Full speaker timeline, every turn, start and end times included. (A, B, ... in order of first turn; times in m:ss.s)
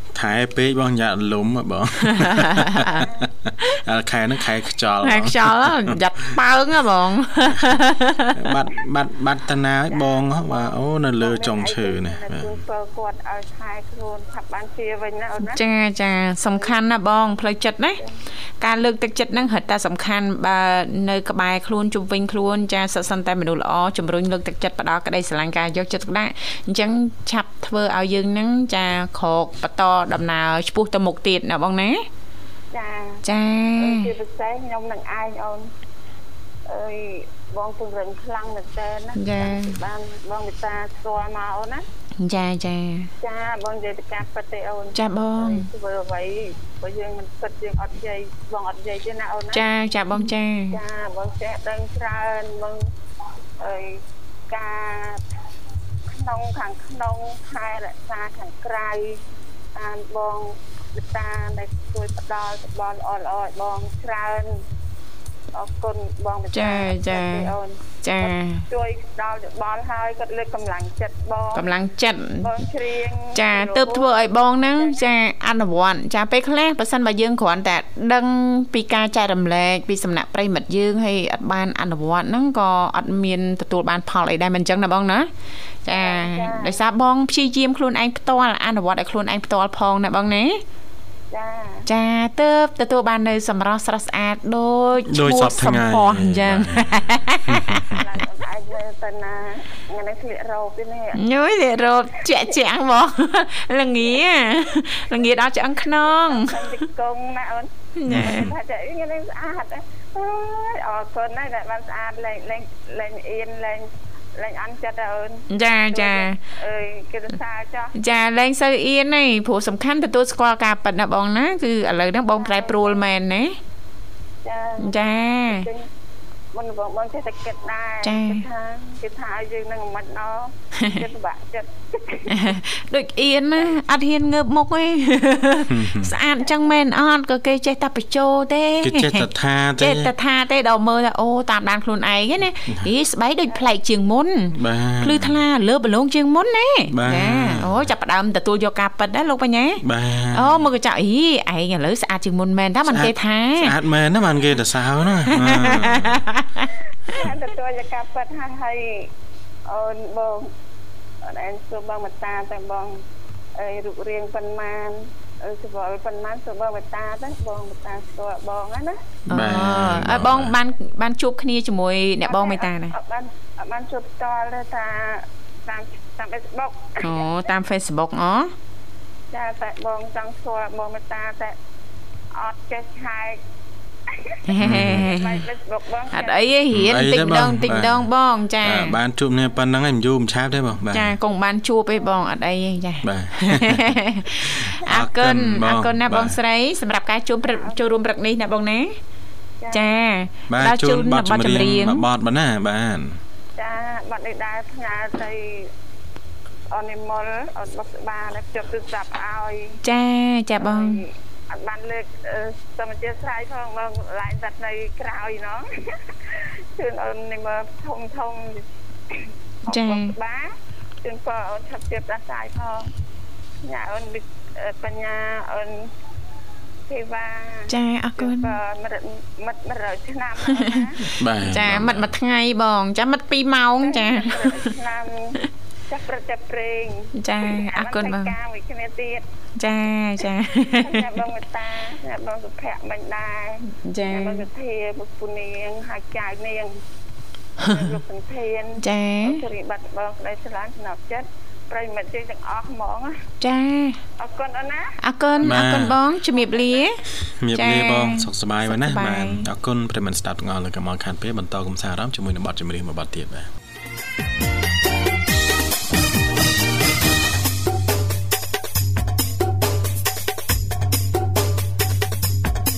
0:00.1-0:06.3 A
0:02.0-0:03.0 B
0:03.0-0:03.2 C
0:05.0-0:08.5 B
0:08.3-0:12.6 A
0:09.9-0:15.6 C
0:15.4-0:18.0 B
0:18.6-0:32.0 B
0:32.7-0:33.2 C
0:33.2-0:34.1 B
0:33.8-0:35.7 C
0:36.6-0:41.8 C
0:39.1-0:39.8 B
0:42.2-0:43.1 B
0:43.2-0:49.6 C
0:45.0-0:45.7 B
0:49.5-0:50.8 B
0:50.3-0:52.9 C
0:53.6-0:54.0 C
0:54.5-0:55.2 C
0:56.1-0:59.2 C
0:59.7-1:04.6 C
1:05.5-1:11.7 C
1:06.5-1:07.5 B
1:08.0-1:08.6 B
1:11.5-1:12.5 B
1:12.4-1:15.0 C
1:13.3-1:25.3 B
1:25.8-1:30.6 B
1:25.9-1:26.8 C
1:31.3-1:31.8 C
1:31.8-1:38.0 B
1:35.1-1:37.9 A
1:37.9-1:41.2 C
1:41.1-1:46.8 B
1:41.8-1:42.6 C
1:45.8-1:57.9 C
1:48.0-1:48.5 B
1:48.1-1:48.5 A
1:55.5-1:56.4 B
1:58.0-2:03.6 B
2:02.4-2:03.1 C
2:04.4-2:05.9 C
2:04.8-2:05.7 B
2:06.5-2:12.6 C
2:08.0-2:08.4 B
2:10.8-2:11.0 B
2:12.3-2:19.3 B
2:15.7-2:16.1 A
2:18.8-2:20.1 A
2:19.8-2:29.8 B
2:24.5-2:25.4 A
2:26.9-2:27.8 A
2:29.8-2:30.6 A
2:30.3-2:33.7 B
2:32.9-2:36.2 A
2:35.3-2:37.2 B
2:37.1-2:39.1 C
2:39.6-2:40.5 C
2:41.2-2:43.0 C
2:43.6-2:49.0 C
2:49.3-2:52.9 B
2:49.3-2:50.6 A
2:52.2-2:57.3 C
2:57.0-2:58.5 B
2:59.3-3:01.6 C
3:02.3-3:03.4 C
3:04.1-3:06.4 C
3:04.5-3:05.4 B
3:04.6-3:05.0 A
3:06.1-3:09.0 B
3:06.7-3:08.1 A
3:08.6-3:11.2 A
3:10.9-3:19.0 B
3:13.0-3:16.4 A
3:17.5-3:17.8 C
3:19.6-3:19.9 C
3:19.7-3:22.0 B
3:20.5-3:23.2 A
3:23.6-3:25.7 C
3:26.7-3:29.8 C
3:29.8-3:31.0 B
3:30.6-3:42.9 C
3:39.7-3:40.1 B
3:43.6-3:45.9 C
3:46.9-3:51.1 C
3:47.7-3:48.6 B
3:50.5-3:50.9 B
3:51.0-3:52.1 A
3:51.4-3:54.7 B
3:53.8-3:55.4 C
3:55.9-3:59.2 C
3:57.2-3:58.3 B
3:59.6-4:01.2 B
4:00.5-4:06.8 C
4:03.7-4:04.4 B
4:07.6-4:13.2 C
4:07.6-4:07.9 B
4:08.8-4:09.4 B
4:13.4-4:14.0 B
4:14.2-4:15.6 C
4:15.0-4:17.0 B
4:15.4-4:16.0 A
4:17.4-4:23.5 A
4:17.5-4:19.5 B